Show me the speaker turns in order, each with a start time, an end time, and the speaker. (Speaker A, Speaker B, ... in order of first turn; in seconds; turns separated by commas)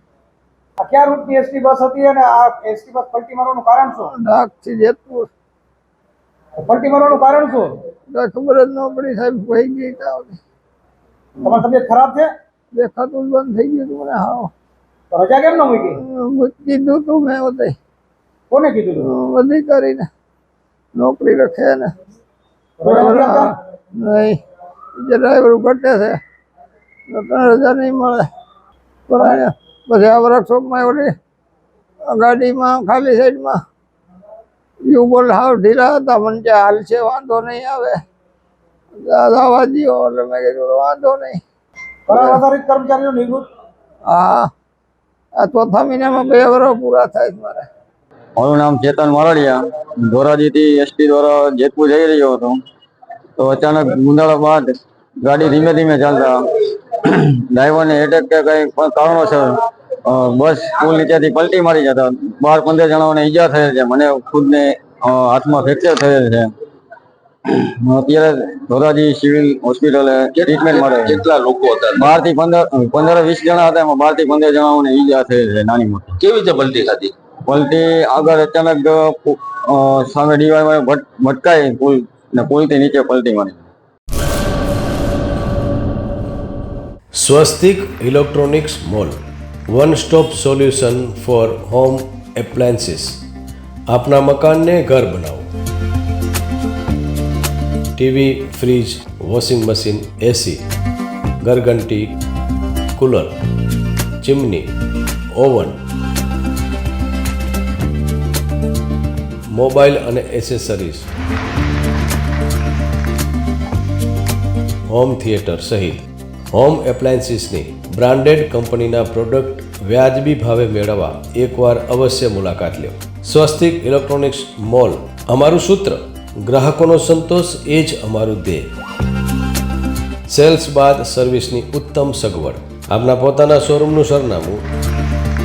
Speaker A: 0.8-4.1, Speaker B: 4.0-5.3, Speaker A: 6.6-7.8, Speaker B: 8.1-10.4, Speaker A: 11.4-12.3, Speaker B: 12.7-14.5, Speaker A: 15.1-15.9, Speaker B: 16.0-17.8, Speaker A: 18.5-19.0, Speaker B: 19.0-20.1, Speaker B: 20.9-21.9, Speaker A: 22.8-23.5, Speaker B: 22.8-24.4, Speaker B: 25.0-26.2, Speaker B: 27.1-28.3, Speaker B: 29.1-31.1, Speaker B: 32.1-33.6, Speaker B: 34.9-38.0, Speaker B: 39.0-41.4, Speaker A: 42.1-43.4, Speaker B: 44.1-44.5, Speaker B: 45.4-47.6, Speaker C: 48.4-52.6, Speaker C: 53.4-54.7, Speaker C: 55.2-66.5, Speaker C: 67.5-71.2, Speaker D: 70.5-72.0, Speaker C: 71.9-76.2, Speaker D: 76.2-77.1, Speaker C: 77.5-83.7, Speaker E: 87.2-89.2, Speaker E: 89.7-93.2, Speaker E: 93.9-95.5, Speaker E: 98.0-100.6, Speaker E: 101.4-102.1, Speaker E: 103.0-103.3, Speaker E: 104.2-104.7, Speaker E: 105.3-105.8, Speaker E: 109.5-111.1, Speaker E: 114.9-128.7, Speaker E: 130.3-134.6